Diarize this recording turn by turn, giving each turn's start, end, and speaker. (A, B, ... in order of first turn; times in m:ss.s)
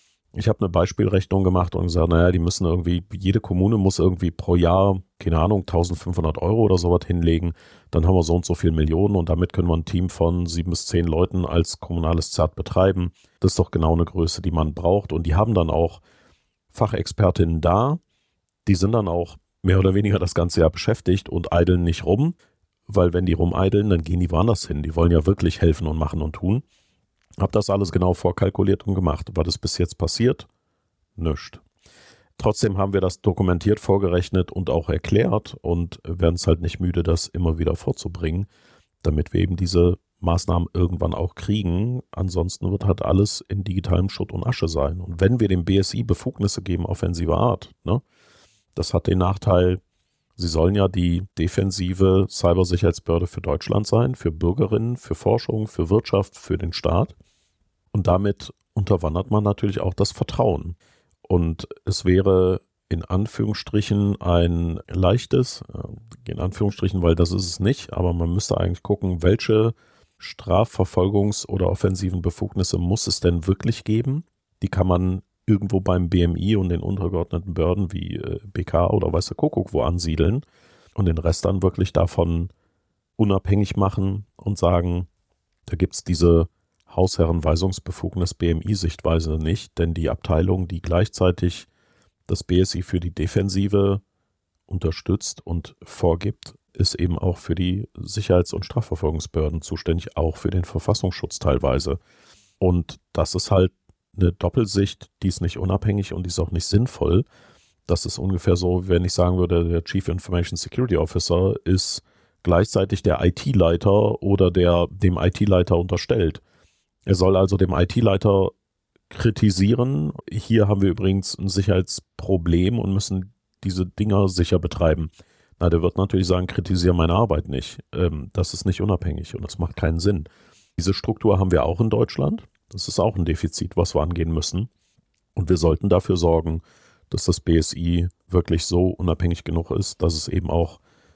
0:00.4-0:16.0 A
0:16.7-0:18.0 A
0:18.6-0:22.4 A
0:22.9-0:26.6 A
0:27.4-0:30.5 A
0:31.2-0:31.6 A
0:32.4-0:38.5 A
0:39.0-0:48.0 A
0:48.7-0:49.8 A
0:50.4-0:57.1 A
0:57.9-1:22.5 A
1:23.2-1:25.1 A
1:25.6-1:31.7 A
1:32.3-1:34.0 A
1:34.7-1:42.0 A
1:42.6-1:47.2 A
1:47.9-1:56.4 A
1:57.0-1:58.5 A
1:59.1-2:14.7 A
2:15.4-2:20.8 A